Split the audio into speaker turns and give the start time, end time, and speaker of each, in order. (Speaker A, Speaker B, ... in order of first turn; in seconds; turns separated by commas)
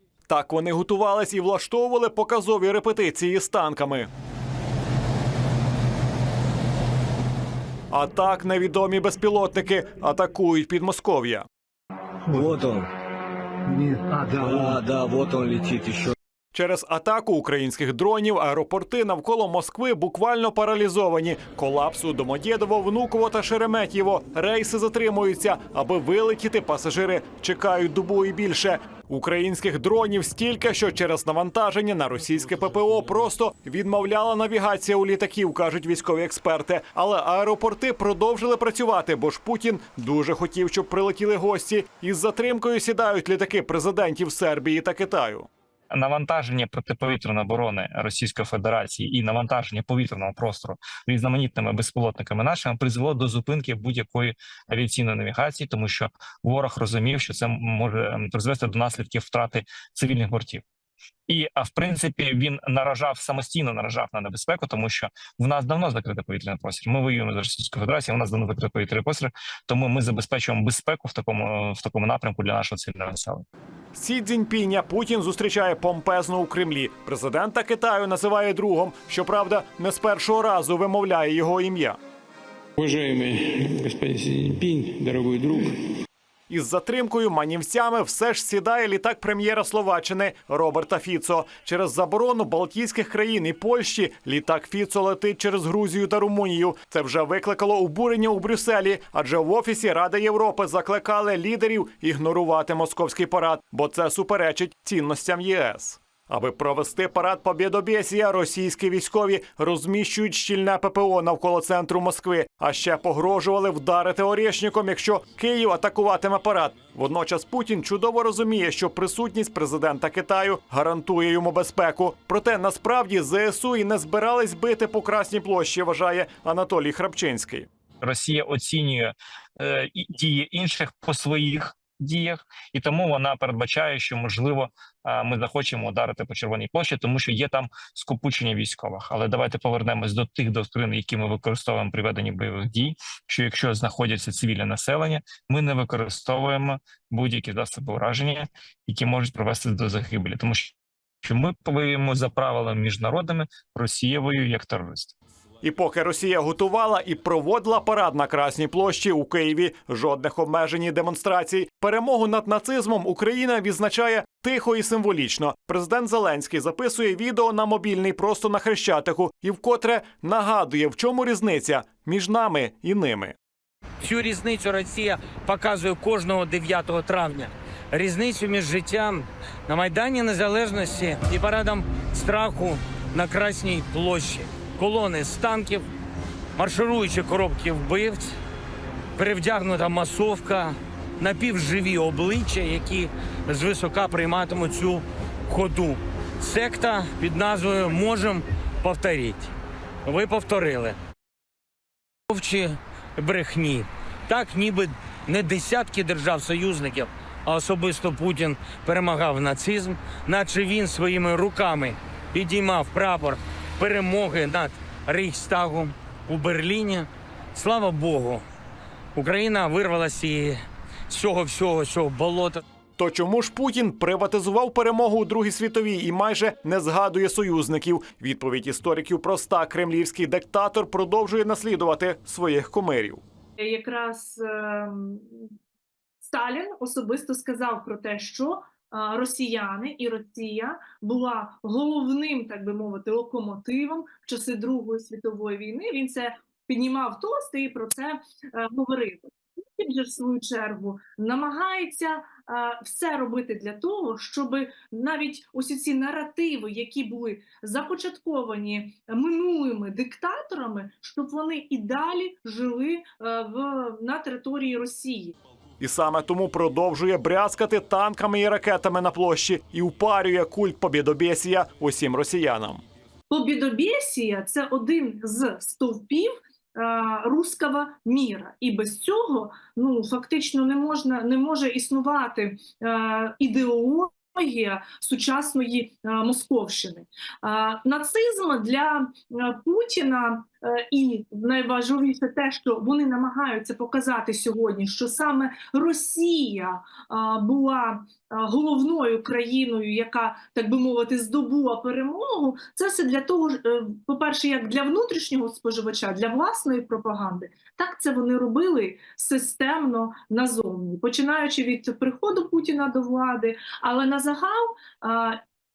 Speaker A: 0.3-4.1, Speaker A: 7.9-11.4, Speaker B: 12.3-12.9, Speaker B: 13.7-16.1, Speaker A: 16.5-45.5, Speaker C: 45.9-60.6, Speaker C: 61.3-73.4, Speaker A: 73.9-82.0, Speaker D: 82.8-85.8, Speaker A: 86.5-127.7, Speaker C: 128.0-155.1, Speaker A: 155.6-173.3, Speaker E: 174.0-185.8, Speaker E: 186.6-188.3, Speaker E: 189.2-199.5, Speaker E: 200.0-200.9, Speaker E: 202.3-218.4, Speaker E: 219.1-222.6, Speaker A: 223.0-233.2, Speaker F: 233.6-235.5, Speaker F: 236.2-265.4, Speaker A: 265.8-272.8, Speaker F: 273.3-315.4